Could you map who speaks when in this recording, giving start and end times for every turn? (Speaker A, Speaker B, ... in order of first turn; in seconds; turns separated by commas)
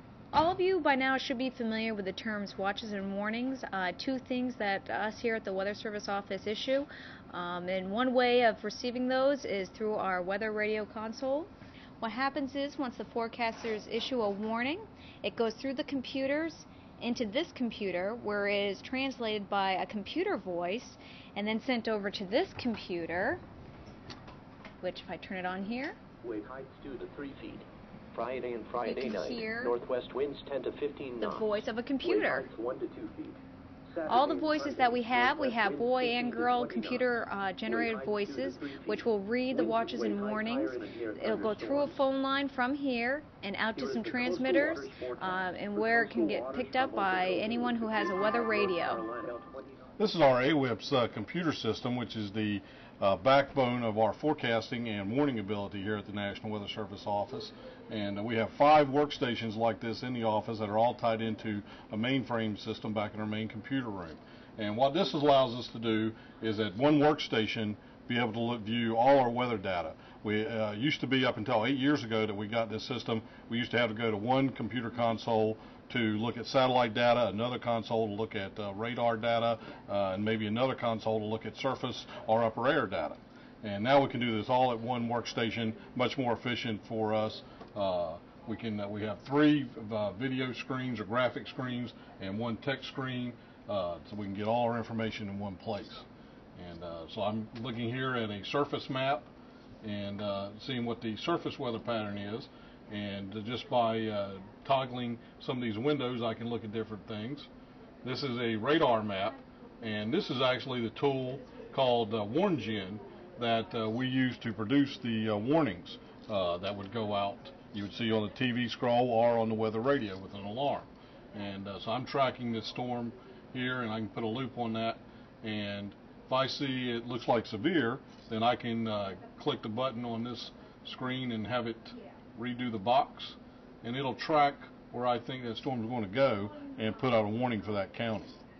Speaker A: 0.3-23.4, Speaker A: 24.8-26.0, Speaker B: 26.2-33.4, Speaker A: 28.8-29.8, Speaker A: 31.2-32.5, Speaker B: 34.0-37.1, Speaker A: 34.1-49.0, Speaker B: 37.7-42.0, Speaker B: 43.8-49.9, Speaker C: 50.0-99.3, Speaker C: 99.8-107.5, Speaker C: 108.0-138.4